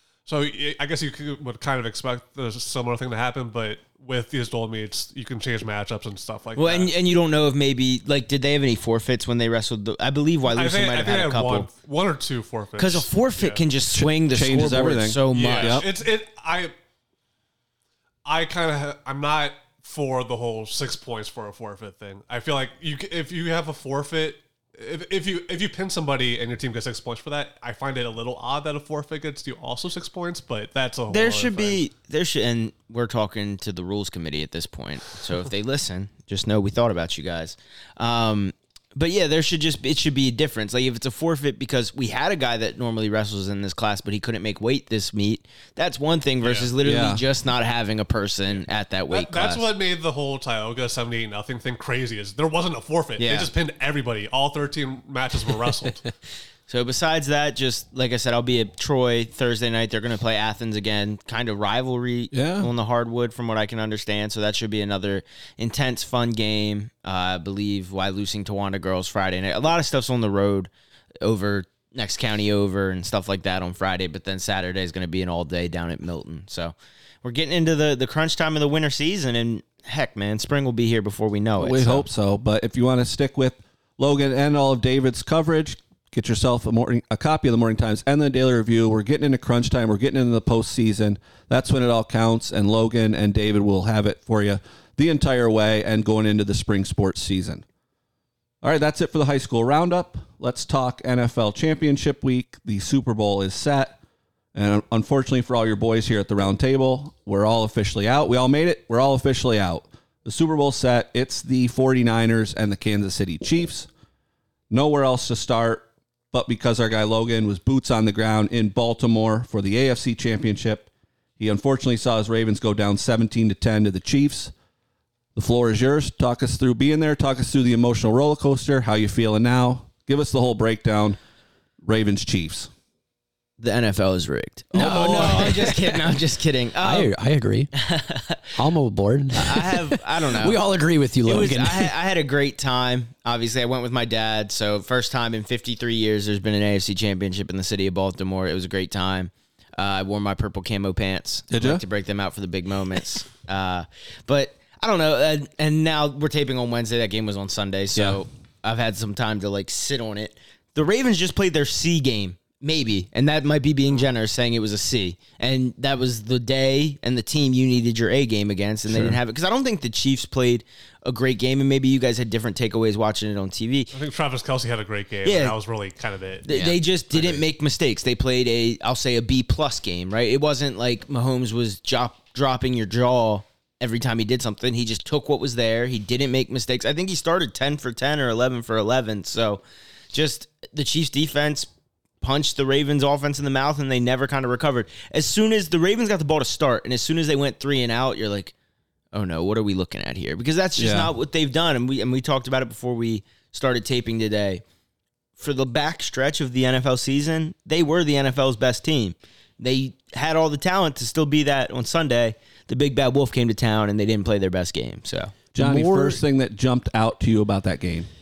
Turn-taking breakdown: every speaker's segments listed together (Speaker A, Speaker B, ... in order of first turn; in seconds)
Speaker A: 0.2-6.9, 10.5-13.6, 15.3-16.7, 18.2-31.8, 46.4-46.7, 48.5-56.1, 173.9-176.5, 177.1-177.4
Speaker B: 6.5-11.7, 12.8-15.8, 31.1-49.6, 53.2-53.5, 56.7-70.7, 71.2-82.0, 133.6-137.1, 137.7-138.5, 139.3-140.6, 141.2-173.9, 175.2-175.5, 176.4-191.7, 192.2-198.5, 199.1-204.6, 205.4-215.3
Speaker C: 13.9-15.8, 46.8-47.2, 62.3-62.7, 81.6-97.6, 98.6-104.0, 104.5-113.9, 114.7-120.9, 121.4-124.5, 125.3-131.2, 131.8-132.7, 151.5-151.8, 157.9-158.2, 200.8-201.1, 215.5-218.1
Speaker D: 134.7-136.0, 136.8-137.7, 138.5-141.9, 176.5-176.8, 215.6-216.2